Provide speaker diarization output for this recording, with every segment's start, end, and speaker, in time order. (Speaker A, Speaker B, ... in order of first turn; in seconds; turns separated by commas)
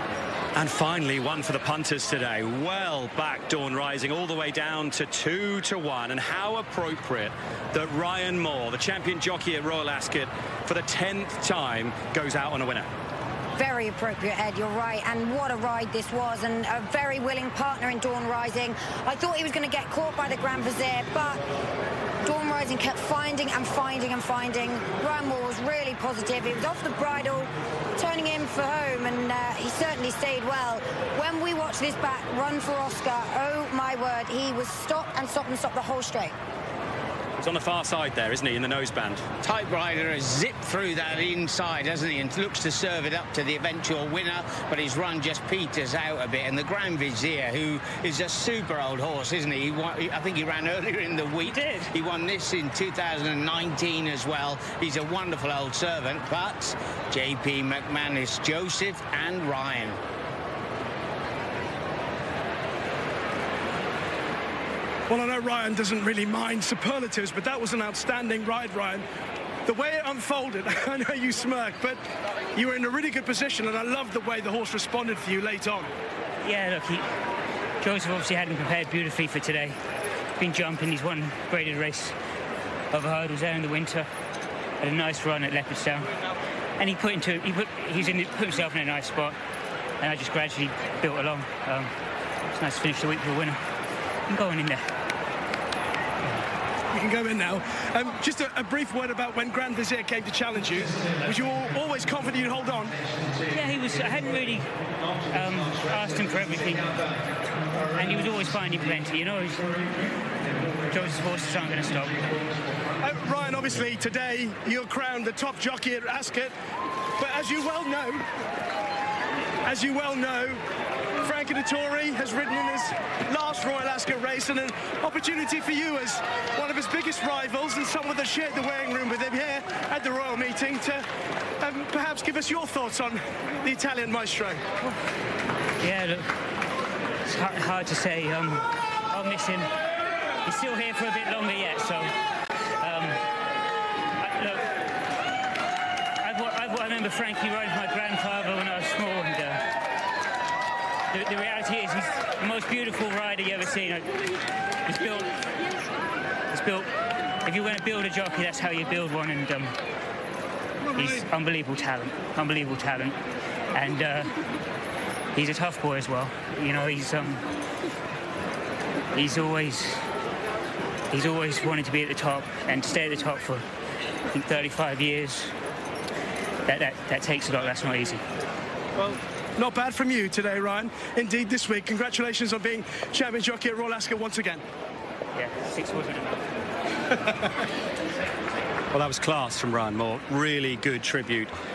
Speaker A: 0.6-12.9, Speaker B: 13.6-21.4, Speaker B: 22.2-36.3, Speaker A: 37.4-39.2, Speaker C: 39.4-60.0, Speaker D: 51.4-51.9, Speaker E: 65.1-69.0, Speaker E: 69.7-72.0, Speaker E: 72.5-75.9, Speaker D: 76.4-77.0, Speaker D: 77.8-79.8, Speaker D: 80.4-82.1, Speaker D: 82.9-84.1, Speaker D: 84.8-86.1, Speaker D: 86.8-89.3, Speaker D: 90.0-91.9, Speaker D: 92.5-93.6, Speaker D: 94.3-94.8, Speaker E: 96.9-103.0, Speaker D: 103.5-104.7, Speaker D: 105.3-107.1, Speaker D: 107.9-109.8, Speaker D: 110.9-112.2, Speaker E: 113.0-116.5, Speaker E: 117.2-118.2, Speaker E: 119.6-120.6, Speaker E: 121.2-131.0, Speaker E: 131.6-134.6, Speaker D: 135.8-136.3, Speaker D: 137.2-139.7, Speaker D: 140.4-142.1, Speaker D: 142.8-143.2, Speaker D: 144.2-144.7, Speaker D: 146.2-149.6, Speaker D: 151.1-154.1, Speaker D: 154.8-155.3, Speaker D: 156.5-156.9, Speaker D: 157.4-159.7, Speaker D: 160.9-163.2, Speaker D: 163.7-164.3, Speaker D: 165.3-167.5, Speaker D: 169.1-170.0, Speaker D: 171.1-173.6, Speaker D: 174.3-175.5, Speaker D: 176.7-178.2, Speaker E: 179.0-184.6, Speaker D: 185.3-186.4, Speaker A: 188.9-191.5